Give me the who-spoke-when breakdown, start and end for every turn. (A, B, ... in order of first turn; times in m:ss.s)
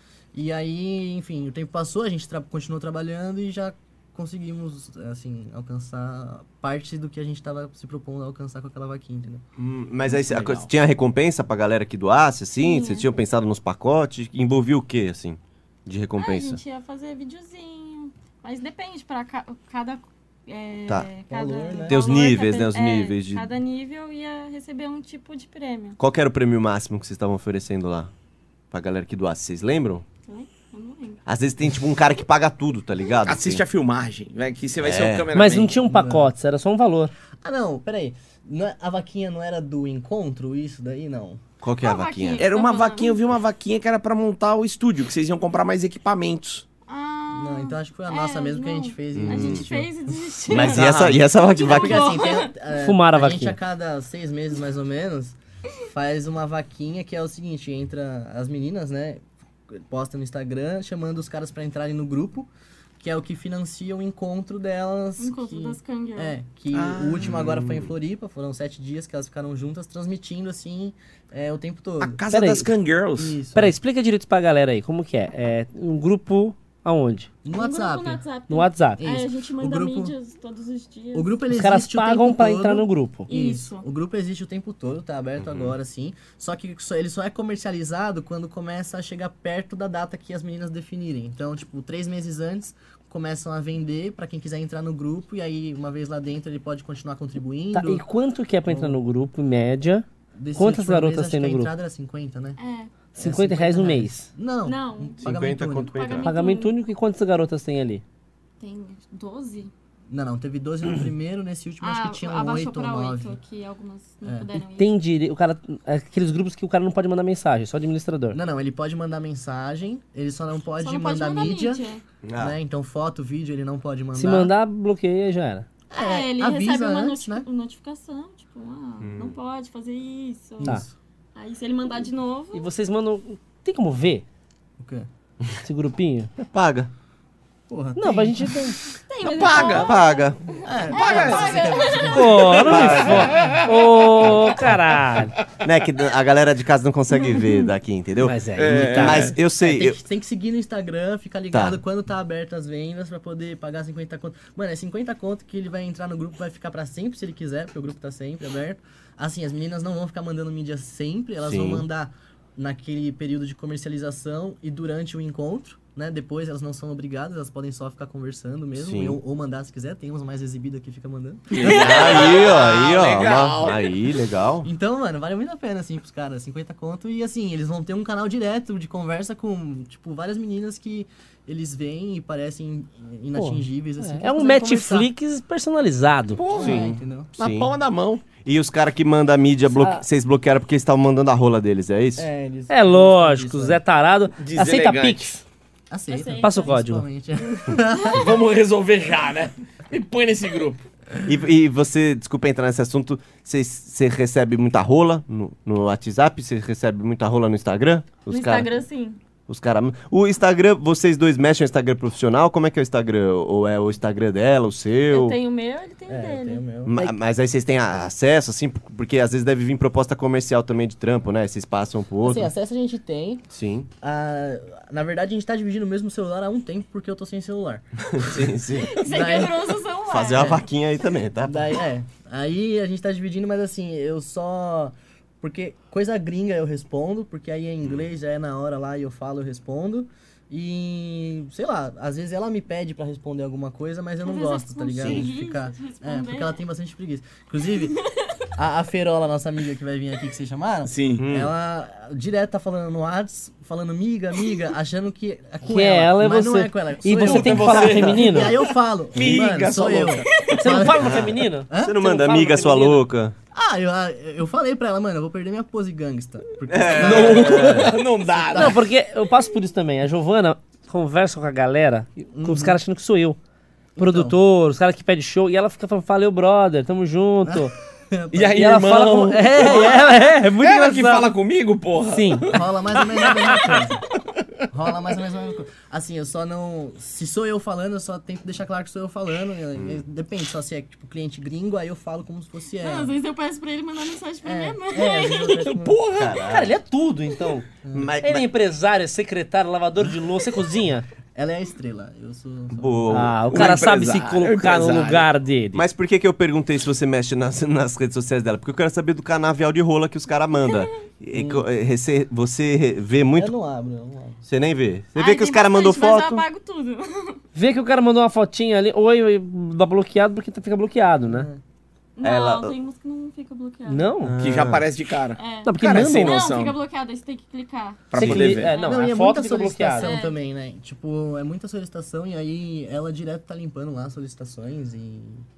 0:00.3-0:09.4 A
0:09.6-0:16.6 B
0:10.1-0:10.7 C
0:12.6-0:13.1 D
0:16.2-0:26.0 D
0:21.3-0:22.0 A
0:21.9-0:23.5 B
0:26.0-0:28.1 B
0:28.7-0:30.0 B
0:30.3-0:31.2 D
0:31.2-0:33.6 B
0:33.2-0:35.8 C
0:34.8-0:35.3 B
0:35.3-0:37.1 E
0:35.8-0:36.3 A
0:37.4-0:41.4 A
0:41.6-0:42.4 B
0:41.8-0:43.2 D
0:42.4-0:46.6 C
0:46.9-0:52.5 D
0:47.3-0:51.0 A
0:49.2-0:49.6 B
0:50.5-0:52.2 B
0:50.6-0:51.2 C
0:51.6-0:55.4 A
0:52.7-0:53.6 E
0:55.9-1:12.2 A
1:05.2-1:06.3 D
1:06.7-1:07.3 C
1:07.2-1:07.9 B
1:12.0-1:13.4 C
1:12.3-1:12.7 E
1:13.2-1:13.7 A
1:13.5-1:17.3 E
1:17.4-1:18.2 A
1:17.5-1:21.3 D
1:18.5-1:19.0 E
1:19.0-1:20.1 A
1:21.1-1:38.0 A
1:21.5-1:23.3 E
1:23.3-1:23.8 D
1:25.4-1:25.7 B
1:37.7-1:41.7 E
1:38.7-1:39.0 A
1:40.3-1:42.6 A
1:42.6-1:42.9 D
1:43.2-1:46.0 A
1:43.2-1:44.3 E
1:44.6-1:45.2 D
1:45.2-1:46.3 B
1:45.8-1:46.7 D
1:46.2-1:48.0 E
1:48.6-1:49.7 D
1:50.1-1:53.4 A
1:51.8-1:55.0 D
1:54.8-1:58.4 E
1:58.3-2:01.8 A
2:00.8-2:02.0 D
2:02.2-2:02.6 B
2:02.4-2:04.5 A
2:04.1-2:05.6 E
2:05.9-2:07.4 A
2:06.0-2:10.8 D
2:09.0-2:09.4 B
2:10.6-2:10.9 A
2:11.3-2:12.6 D
2:12.5-2:14.2 E
2:14.8-2:15.1 A
2:15.6-2:16.3 E
2:16.5-2:16.9 B
2:17.7-2:18.6 A
2:18.0-2:18.8 E
2:19.1-2:22.7 D
2:19.2-2:20.0 C
2:19.5-2:20.4 B
2:20.6-2:23.2 A
2:20.9-2:21.9 C
2:22.1-2:25.3 E
2:22.7-2:23.4 B
2:22.7-2:23.8 C
2:25.6-2:30.0 B
2:27.3-2:27.6 D
2:28.2-2:29.3 E
2:28.6-2:29.4 C
2:29.6-2:52.1 A
2:31.5-2:31.8 B
2:41.4-2:41.8 B
2:48.8-2:49.2 B
2:51.5-2:54.0 C
2:51.6-2:54.7 B
2:51.9-2:52.2 D
2:54.6-3:05.1 A
3:03.3-3:06.4 E
3:06.3-3:08.3 C
3:06.5-3:07.3 A
3:06.6-3:07.7 B
3:08.3-3:12.3 B
3:09.8-3:10.0 E
3:12.2-3:13.8 A
3:12.7-3:15.4 E
3:14.4-3:15.3 C
3:15.9-3:18.4 A
3:16.1-3:16.7 D
3:16.4-3:17.0 E
3:17.7-3:18.2 D
3:18.1-3:20.8 C
3:21.2-3:28.7 B
3:28.3-3:29.2 D
3:29.5-3:35.4 B
3:35.1-3:36.6 D
3:36.1-3:37.1 A
3:36.8-3:42.5 B
3:42.2-3:43.4 A
3:43.5-3:43.9 B
3:44.0-3:48.5 A
3:48.1-3:49.0 B
3:48.8-3:50.6 D
3:49.0-3:49.7 A
3:50.1-3:51.8 B
3:50.3-3:50.6 A
3:51.4-4:08.0 A
4:04.2-4:06.6 D
4:07.8-4:08.3 D
4:08.6-4:22.2 A
4:10.8-4:11.2 C
4:11.2-4:11.5 B
4:15.7-4:18.6 E
4:17.1-4:18.5 C
4:19.1-4:20.6 C
4:20.5-4:23.0 E
4:21.0-4:23.3 B
4:23.5-4:28.8 A
4:26.7-4:28.0 B
4:26.9-4:28.8 C
4:28.5-4:33.4 E
4:32.3-4:32.8 A
4:34.0-4:34.4 A
4:34.0-4:37.7 E
4:37.4-4:38.7 A
4:38.3-4:42.6 C
4:38.5-4:41.3 E
4:42.0-4:42.6 E
4:42.5-4:44.0 A
4:44.7-4:53.2 A
4:52.8-4:55.7 D
4:54.4-4:56.0 A
4:55.6-4:56.4 C
4:56.1-4:56.8 B
4:56.4-4:57.7 E
4:57.8-4:58.1 A
4:57.9-4:58.4 B
4:58.2-5:01.1 E
5:01.3-5:03.0 A
5:02.7-5:03.5 B
5:03.1-5:05.8 E
5:03.5-5:05.3 C
5:05.7-5:13.5 B
5:11.3-5:11.6 A
5:13.3-5:14.4 A
5:14.4-5:16.4 B
5:15.2-5:17.4 D
5:17.5-5:21.5 E
5:21.2-5:21.6 A
5:22.2-5:24.1 D
5:22.2-5:22.7 B
5:23.9-5:24.4 E
5:24.2-5:24.9 B
5:24.4-5:26.8 C
5:25.4-5:28.1 D
5:25.6-5:26.4 E
5:28.1-5:28.7 C
5:28.1-5:30.1 E
5:28.2-5:28.5 B
5:28.6-5:35.4 A
5:30.0-5:30.4 D